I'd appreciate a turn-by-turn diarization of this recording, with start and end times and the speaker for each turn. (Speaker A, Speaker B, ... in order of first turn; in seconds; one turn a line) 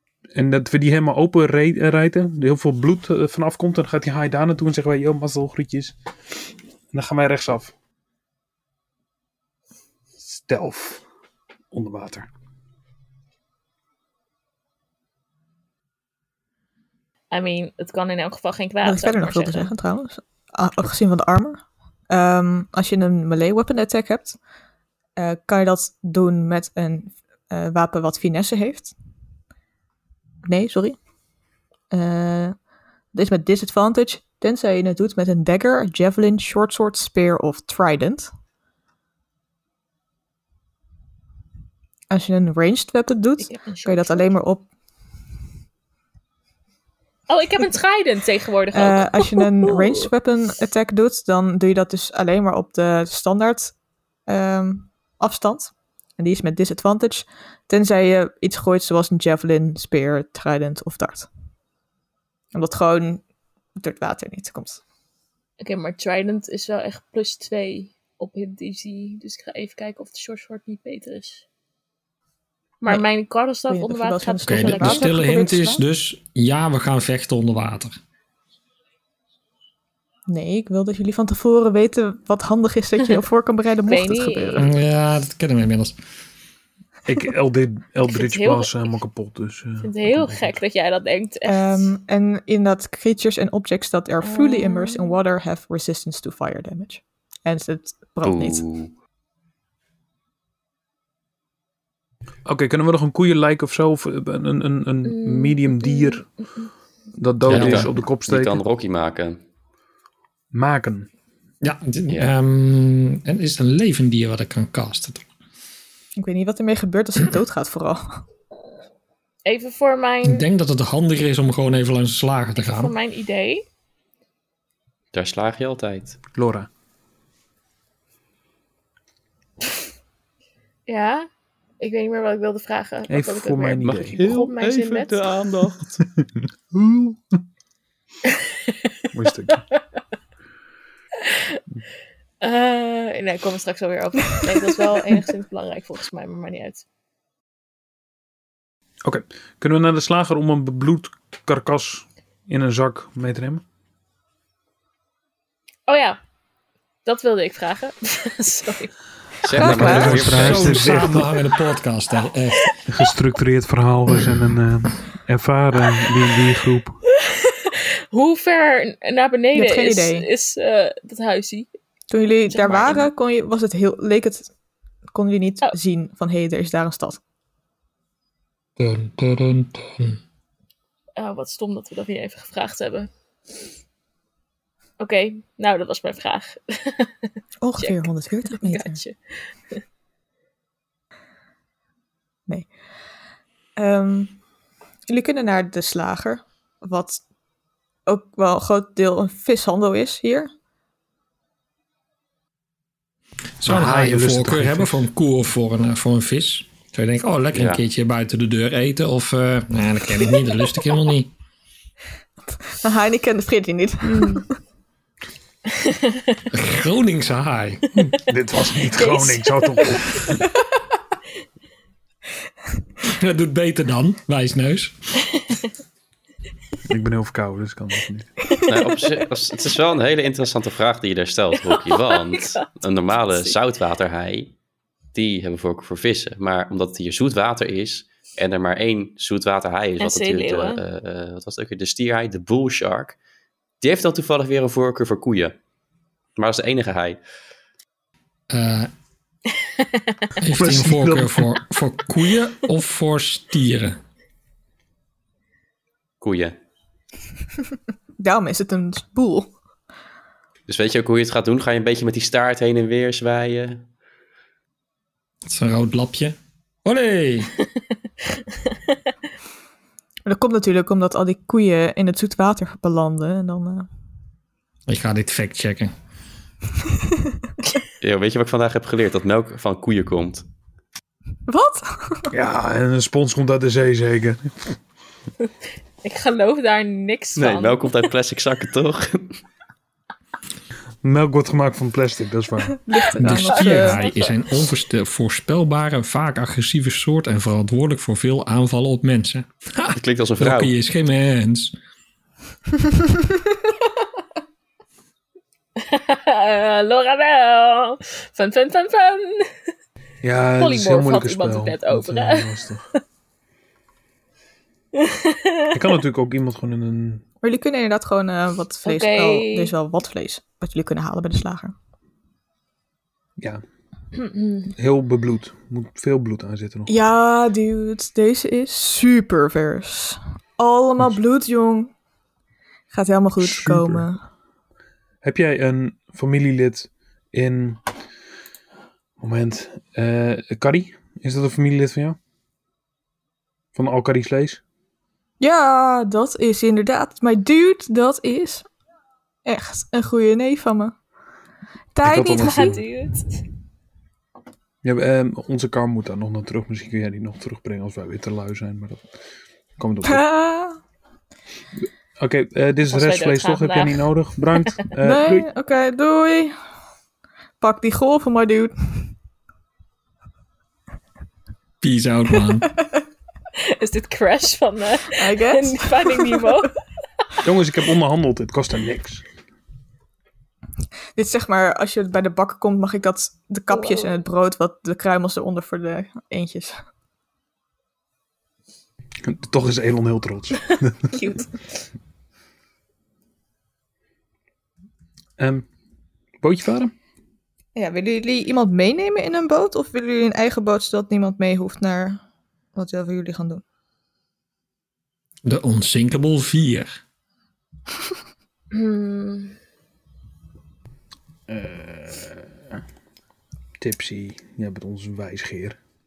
Speaker A: 0.3-5.9
Speaker A: 6.9-7.7
Speaker A: 10.2-11.0
Speaker A: 11.7-12.3
Speaker B: 17.3-19.7
Speaker C: 18.8-24.4
Speaker C: 25.2-28.9
Speaker C: 30.4-31.0
Speaker C: 31.9-32.6
Speaker C: 33.1-38.3
Speaker C: 42.1-44.6
Speaker B: 43.4-44.3
Speaker B: 47.3-50.0
Speaker C: 48.7-61.3
Speaker C: 62.5-63.2
Speaker C: 63.8-64.8
Speaker B: 65.6-71.4
Speaker B: 72.8-75.1
Speaker C: 73.7-75.8
Speaker D: 74.4-77.9
Speaker C: 80.3-84.7
Speaker B: 83.9-84.7
Speaker D: 84.6-85.9
Speaker A: 87.0-90.6
Speaker B: 88.0-88.7
Speaker B: 89.8-91.9
Speaker C: 91.5-98.6
Speaker B: 94.2-95.2
Speaker E: 98.2-98.9
Speaker A: 102.5-106.2
Speaker B: 105.0-106.7
Speaker A: 107.1-108.6
Speaker D: 107.5-107.9
Speaker E: 107.5-109.4
Speaker A: 110.5-111.1
Speaker D: 111.6-115.2
Speaker C: 116.2-118.2
Speaker B: 119.4-120.4
Speaker D: 120.2-122.9
Speaker B: 122.5-123.7
Speaker E: 125.1-126.2
Speaker A: 126.3-126.7
Speaker B: 130.9-131.3
Speaker B: 131.8-135.4
Speaker A: 133.1-134.2
Speaker E: 133.8-136.0
Speaker A: 136.2-137.4
Speaker B: 138.2-138.9
Speaker A: 139.1-139.6
Speaker B: 141.2-141.6
Speaker B: 142.4-146.8
Speaker A: 149.0-153.6
Speaker B: 155.9-156.2
Speaker B: 157.0-158.9
Speaker E: 159.4-160.9
Speaker C: 159.5-160.3
Speaker D: 159.6-162.7
Speaker A: 159.6-161.3
Speaker B: 162.5-162.8
Speaker A: 162.9-167.0
Speaker B: 167.1-171.7
Speaker C: 169.5-170.3
Speaker C: 172.1-174.5
Speaker B: 172.5-173.1
Speaker C: 175.1-177.2
Speaker D: 178.8-180.2
Speaker B: 181.2-183.1
Speaker B: 185.0-189.8
Speaker C: 187.6-189.0
Speaker C: 193.8-194.4
Speaker C: 195.1-197.2
Speaker C: 198.1-200.5
Speaker D: 203.6-211.3
Speaker A: 203.6-205.0
Speaker E: 207.5-207.8
Speaker C: 212.8-214.5
Speaker B: 214.0-214.4
Speaker B: 215.8-216.4
Speaker D: 216.5-218.2
Speaker A: 218.2-220.4
Speaker B: 219.0-219.5
Speaker D: 223.0-225.0
Speaker A: 226.8-228.3
Speaker E: 228.7-234.5
Speaker B: 231.7-233.6
Speaker E: 235.1-243.2
Speaker B: 240.0-240.8
Speaker E: 243.8-245.6
Speaker E: 246.3-247.2
Speaker D: 248.5-248.9
Speaker B: 249.7-250.2
Speaker D: 250.4-254.0
Speaker A: 250.5-251.6
Speaker E: 256.2-256.5
Speaker C: 258.2-259.5
Speaker E: 260.7-263.9
Speaker D: 265.5-267.5
Speaker B: 268.7-268.9
Speaker C: 270.2-273.9
Speaker D: 274.9-275.9
Speaker E: 278.0-280.4
Speaker C: 281.5-282.3
Speaker A: 282.3-284.8
Speaker B: 286.0-288.0
Speaker E: 287.4-289.4
Speaker A: 291.0-292.8
Speaker C: 292.9-294.0
Speaker D: 293.1-301.7
Speaker B: 293.2-294.7
Speaker E: 300.0-300.8
Speaker B: 305.8-309.5
Speaker A: 310.2-312.9
Speaker B: 310.6-312.5
Speaker B: 314.9-315.7
Speaker A: 315.7-317.2
Speaker C: 317.4-321.7
Speaker B: 318.9-319.7
Speaker B: 324.1-324.7
Speaker A: 324.8-326.9
Speaker C: 326.9-331.9
Speaker C: 332.9-334.2
Speaker A: 333.4-334.1
Speaker A: 335.2-337.8
Speaker A: 339.2-342.2
Speaker A: 343.8-344.6
Speaker C: 345.4-348.6
Speaker C: 349.4-350.9
Speaker C: 351.9-352.8
Speaker A: 352.0-352.8
Speaker B: 352.2-353.4
Speaker A: 354.8-359.1
Speaker A: 359.8-360.2
Speaker C: 360.1-360.8
Speaker A: 362.2-365.5
Speaker B: 362.9-364.1
Speaker C: 365.0-366.5
Speaker C: 367.6-369.1
Speaker D: 371.8-372.7
Speaker B: 373.6-376.8
Speaker C: 375.1-376.5
Speaker A: 377.4-379.2
Speaker C: 381.1-386.8
Speaker B: 383.7-384.2
Speaker A: 389.2-391.1
Speaker B: 391.1-391.6
Speaker A: 395.4-395.7
Speaker A: 396.4-396.9
Speaker C: 397.8-402.2
Speaker C: 402.7-403.6
Speaker D: 405.4-406.9
Speaker B: 408.7-409.6
Speaker A: 411.5-412.8
Speaker A: 413.8-415.8